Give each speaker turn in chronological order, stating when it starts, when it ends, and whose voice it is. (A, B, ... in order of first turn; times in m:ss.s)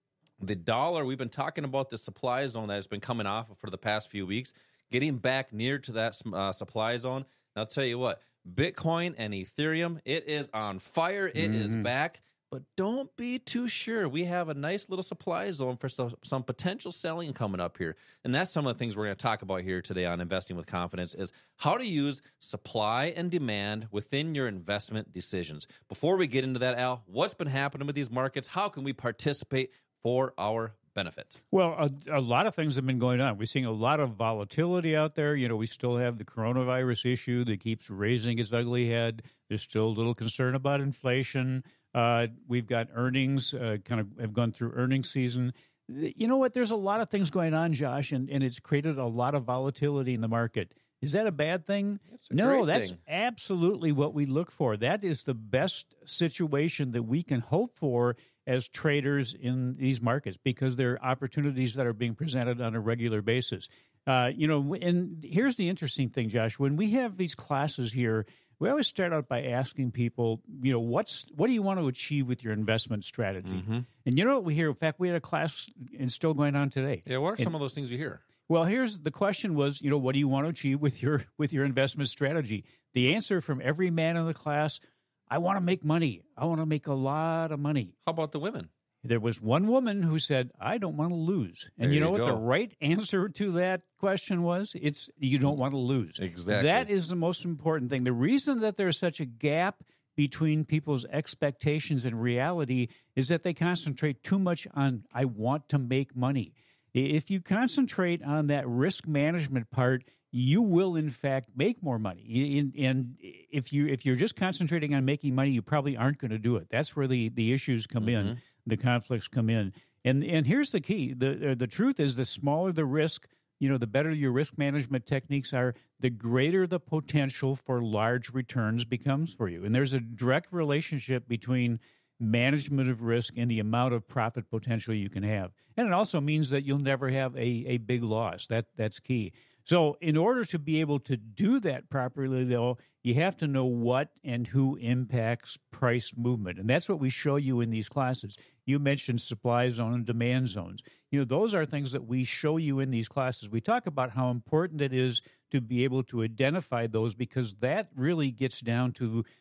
0:00.4-0:31.4 A
0:11.4-0:11.9 B
0:31.5-1:17.5 B
0:52.2-0:53.0 A
1:13.4-1:13.8 A
1:17.0-1:18.2 A
1:18.5-1:27.9 B
1:28.0-1:28.7 A
1:29.0-2:39.2 B
1:31.8-1:32.4 A
1:36.2-1:36.9 A
1:58.0-1:58.4 A